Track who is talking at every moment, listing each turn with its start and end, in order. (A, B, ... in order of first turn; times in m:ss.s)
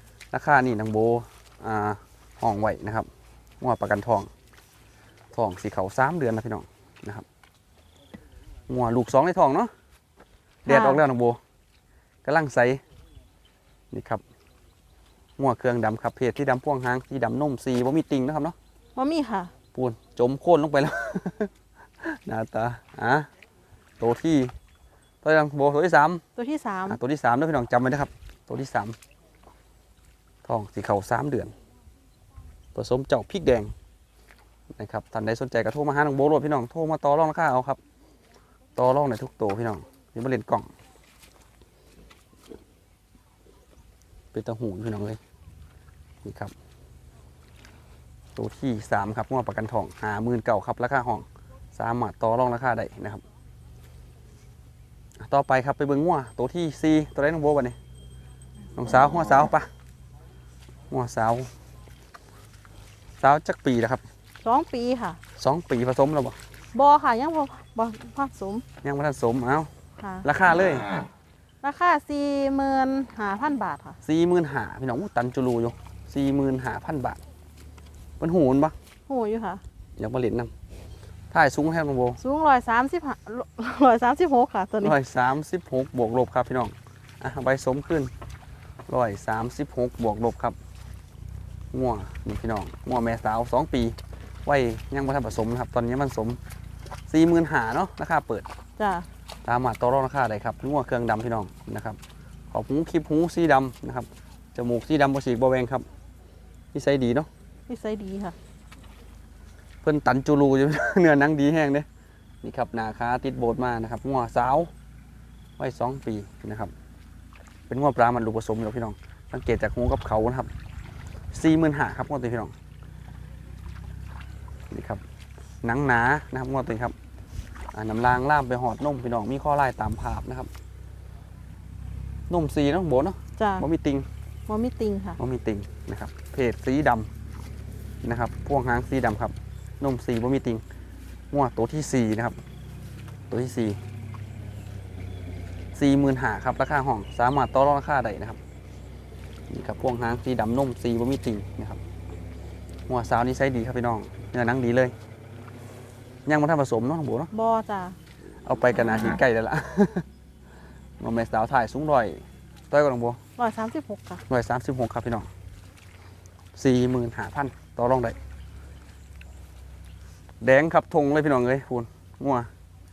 0:00.3-0:03.1 A
0:03.6-0:04.3 A
0:05.3-0:07.2 A
0:08.7-0:09.7 A
0:10.6-0:11.0 B
0:10.6-0:11.4 A
0:12.2-0:12.8 A
0:13.9-0:14.2 A
0:15.4-0:18.6 A
0:19.0-0:19.5 B
0:19.7-0:23.3 A
0:24.0-0:24.5 A
0:25.2-0:26.2 A
0:26.4-0:27.0 B
0:26.9-0:29.0 A
0:30.4-0:31.5 A
0:32.7-0:33.7 A
0:34.8-0:37.8 A
0:38.8-0:40.7 A
0:44.3-0:45.2 A
0:46.2-0:46.5 A
0:48.3-0:53.2 A
0:55.2-0:57.8 A
0:58.8-0:59.7 A
1:00.9-1:01.5 A
1:03.2-1:04.0 A
1:04.4-1:05.2 B
1:05.4-1:06.4 A
1:06.7-1:08.6 B
1:08.8-1:09.7 A
1:10.0-1:10.2 B
1:10.2-1:10.9 A
1:11.6-1:14.0 B
1:14.0-1:17.2 A
1:18.2-1:18.7 A
1:19.1-1:19.6 B
1:20.0-1:20.5 A
1:21.3-1:22.2 A
1:22.2-1:25.0 B
1:24.8-1:28.1 A
1:28.9-1:30.6 A
1:31.7-1:36.4 A
1:37.1-1:38.5 A
1:38.8-1:39.1 B
1:39.4-1:42.0 A
1:42.5-1:45.8 A
1:46.7-1:47.3 A
1:47.7-1:48.4 B
1:49.8-1:51.9 A
1:52.4-1:54.7 A
1:55.6-1:56.7 A
1:57.7-2:00.5 A
2:01.3-2:02.5 A
2:04.7-2:05.0 A
2:05.6-2:06.9 A
2:07.7-2:10.5 A
2:12.3-2:14.1 A
2:13.4-2:13.6 B
2:14.5-2:15.2 B
2:15.2-2:17.1 A
2:18.0-2:20.6 A
2:21.3-2:22.4 A
2:23.3-2:23.8 A
2:25.7-2:28.4 A
2:29.5-2:31.8 A
2:32.9-2:34.9 A
2:36.2-2:37.3 A
2:37.3-2:38.0 B
2:38.4-2:40.1 A
2:41.0-2:43.2 A
2:43.4-2:44.2 B
2:44.3-2:45.3 A
2:46.5-2:48.2 A
2:50.4-2:52.5 A